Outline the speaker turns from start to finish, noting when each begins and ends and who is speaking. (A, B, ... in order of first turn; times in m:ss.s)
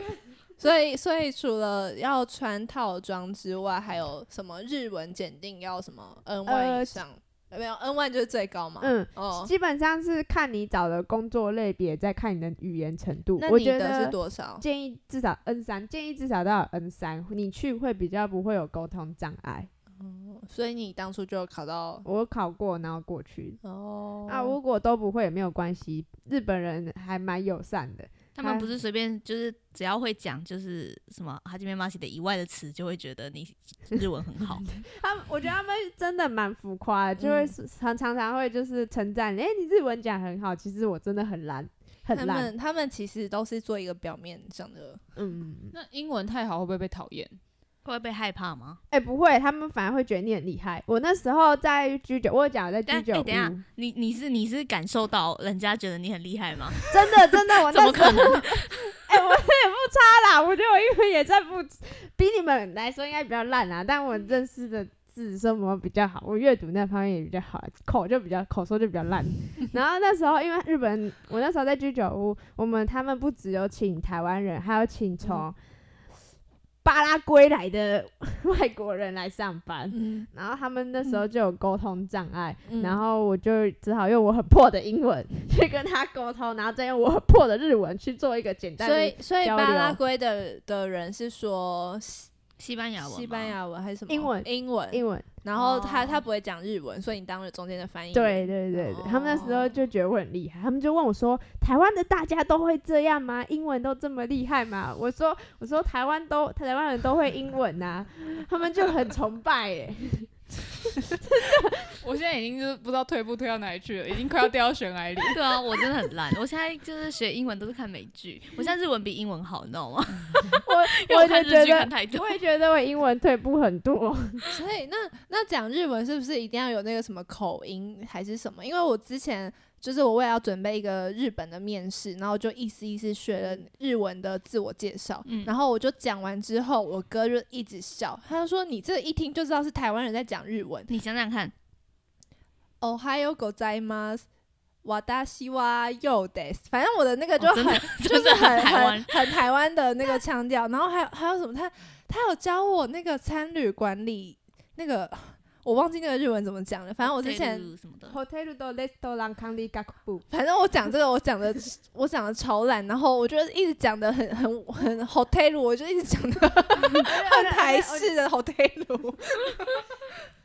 0:00.6-0:09.5 A
0:06.5-0:07.0 B
0:08.8-0:19.7 B
0:13.4-0:14.6 A
0:20.0-0:22.1 A
0:22.0-0:23.6 B
0:23.6-0:24.6 A
0:24.3-0:28.7 B
0:28.4-0:34.6 C
0:34.8-0:42.5 B
0:37.2-0:37.5 A
0:42.1-0:45.0 A
0:45.2-0:45.8 B
0:45.7-0:47.4 D
0:47.8-0:48.8 C
0:48.9-0:53.6 B
0:52.9-0:58.7 C
0:56.9-1:15.6 B
1:16.8-1:30.0 B
1:19.9-1:20.3 A
1:22.7-1:23.0 A
1:28.8-1:32.3 A
1:32.6-1:33.6 C
1:33.0-1:39.7 A
1:34.1-1:35.3 B
1:35.6-1:36.2 C
1:38.1-1:50.3 B
1:51.2-1:51.9 B
1:52.0-1:55.4 D
1:55.3-2:02.4 C
2:00.5-2:04.4 B
2:04.5-2:20.9 A
2:15.3-2:15.5 C
2:20.9-2:21.5 C
2:22.8-2:24.2 A
2:24.8-2:37.7 A
2:27.4-2:29.4 C
2:37.1-2:38.2 C
2:38.1-2:40.2 B
2:40.3-2:50.0 A
2:47.0-2:48.1 B